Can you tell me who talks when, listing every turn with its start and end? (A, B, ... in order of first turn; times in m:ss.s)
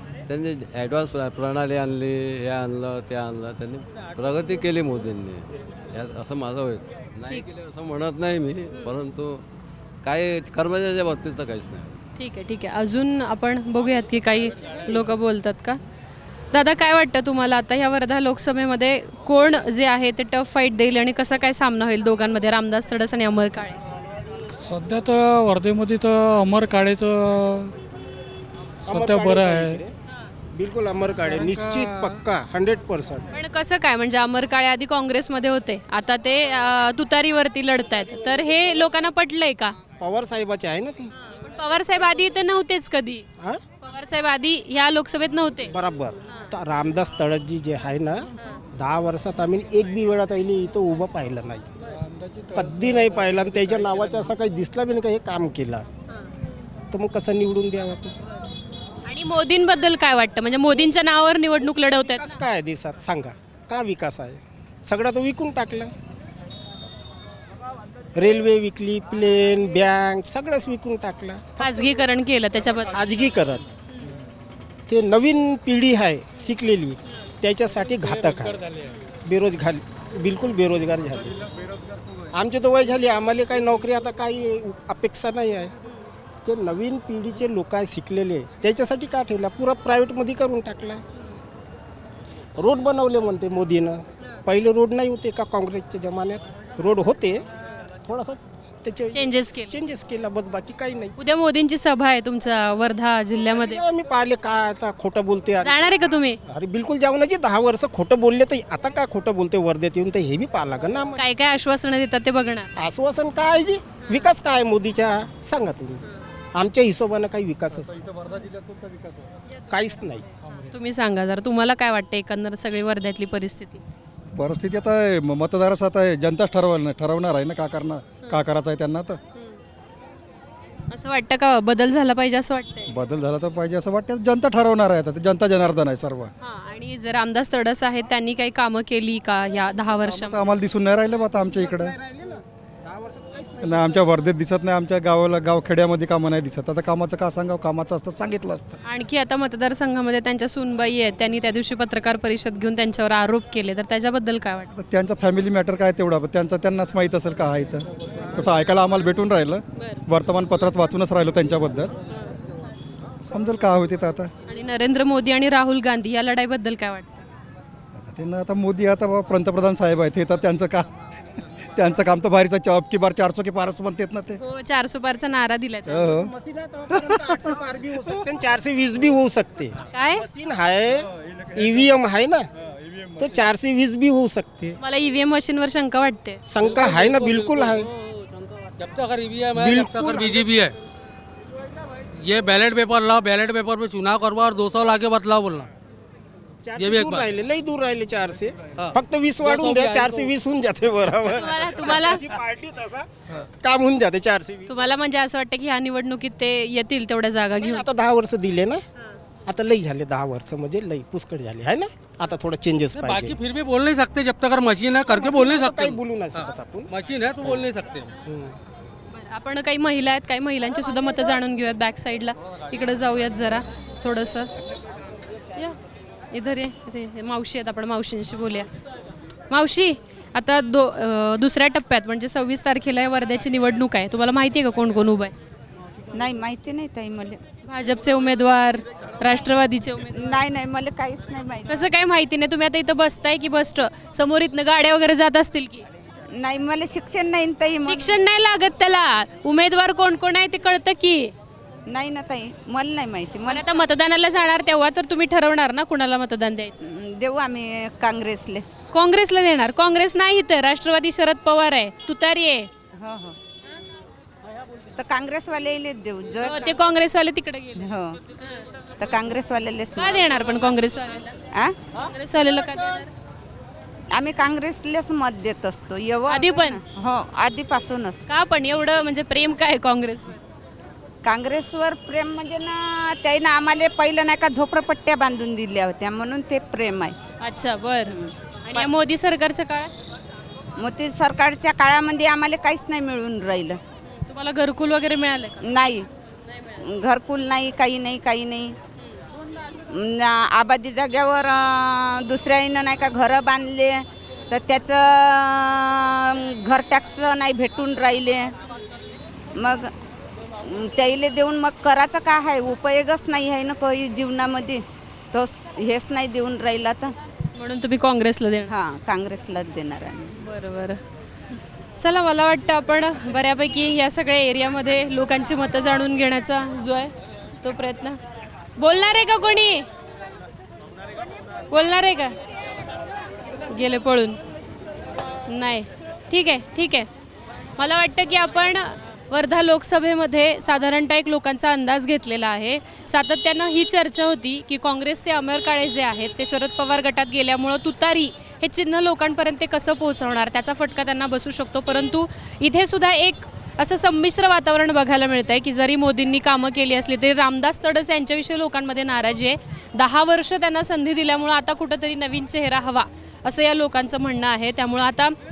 0:00.3-0:09.4 A
0:10.0-0:12.0 A
0:12.2-0:15.8 B
0:16.5-0:23.8 B
0:24.6-0:27.7 C
0:28.8-0:29.9 D
0:28.9-0:29.8 C
0:30.5-0:33.2 D
0:31.3-0:32.0 C
0:33.3-0:39.7 B
0:40.0-0:41.1 D
0:41.2-0:43.2 B
0:43.8-0:45.7 B
0:45.7-0:51.6 D
0:52.5-0:55.8 D
0:56.9-0:58.1 D
0:59.0-1:02.3 B
1:02.1-1:05.9 D
1:08.2-1:11.6 D
1:11.6-1:13.0 B
1:12.9-1:13.6 D
1:14.9-1:18.6 D
1:19.2-1:21.4 D
1:22.3-1:25.7 D
1:26.4-1:31.0 D
1:32.6-1:37.4 D
1:38.0-1:41.1 D
1:39.1-1:39.8 B
1:41.2-1:43.8 B
1:43.5-1:45.8 D
1:45.6-1:46.4 B
1:46.5-1:51.2 D
1:51.2-1:52.7 B
1:52.8-1:56.0 D
1:56.5-1:57.9 D
1:57.9-1:59.2 E
1:59.7-2:00.3 D
2:00.5-2:03.8 B
2:04.4-2:09.2 E
2:09.3-2:09.6 B
2:10.9-2:12.9 B
2:12.9-2:16.3 E
2:16.4-2:20.4 B
2:20.0-2:22.0 E
2:21.4-2:24.2 D
2:23.6-2:28.8 E
2:28.8-2:34.7 B
2:34.7-2:41.9 E
2:39.8-2:40.0 B
2:43.2-2:44.3 E
2:44.5-2:47.2 B
2:48.0-2:50.9 E
2:51.7-2:54.4 E
2:54.4-2:56.1 B
2:55.9-2:56.3 E
2:56.1-3:02.5 D
2:56.9-2:57.4 E
2:59.9-3:00.2 B
3:03.2-3:04.8 D
3:04.8-3:06.4 B
3:06.5-3:07.9 D
3:06.6-3:10.8 F
3:09.5-3:10.5 D
3:12.1-3:15.7 F
3:16.6-3:24.7 D
3:16.8-3:17.2 F
3:18.8-3:20.3 F
3:21.3-3:22.2 B
3:24.7-3:27.9 B
3:27.6-3:28.8 D
3:29.4-3:33.4 D
3:32.9-3:38.2 F
3:35.1-3:36.9 D
3:38.3-3:38.5 D
3:39.1-3:44.5 B
3:46.3-3:48.7 B
3:49.5-3:55.3 B
3:56.1-3:57.4 G
3:57.6-4:00.4 B
4:00.2-4:01.8 G
4:01.7-4:05.8 B
4:06.3-4:08.2 G
4:07.8-4:11.3 B
4:11.9-4:13.8 G
4:13.4-4:16.8 B
4:16.8-4:18.7 G
4:18.9-4:22.7 B
4:23.0-4:23.4 G
4:25.0-4:26.8 G
4:26.4-4:27.9 B
4:27.8-4:28.2 G
4:29.0-4:30.3 G
4:30.0-4:31.3 B
4:32.0-4:33.1 B
4:34.1-4:38.2 G
4:36.3-4:36.8 B
4:38.3-4:40.3 B
4:41.2-4:47.2 G
4:47.4-4:48.1 B
4:48.1-4:48.9 G
4:48.7-4:49.9 B
4:50.8-4:53.8 G
4:54.1-4:55.6 B
4:55.6-4:56.1 G
4:56.8-4:58.8 G
4:59.9-5:08.5 G
5:09.5-5:09.9 G
5:10.6-5:17.1 G
5:17.5-5:18.7 B
5:18.7-5:20.4 G
5:20.4-5:21.0 B
5:22.0-5:28.2 B
5:28.8-5:29.9 B
5:31.7-5:32.3 B
5:33.7-5:34.4 B
5:35.5-5:37.1 B
5:37.8-6:05.3 B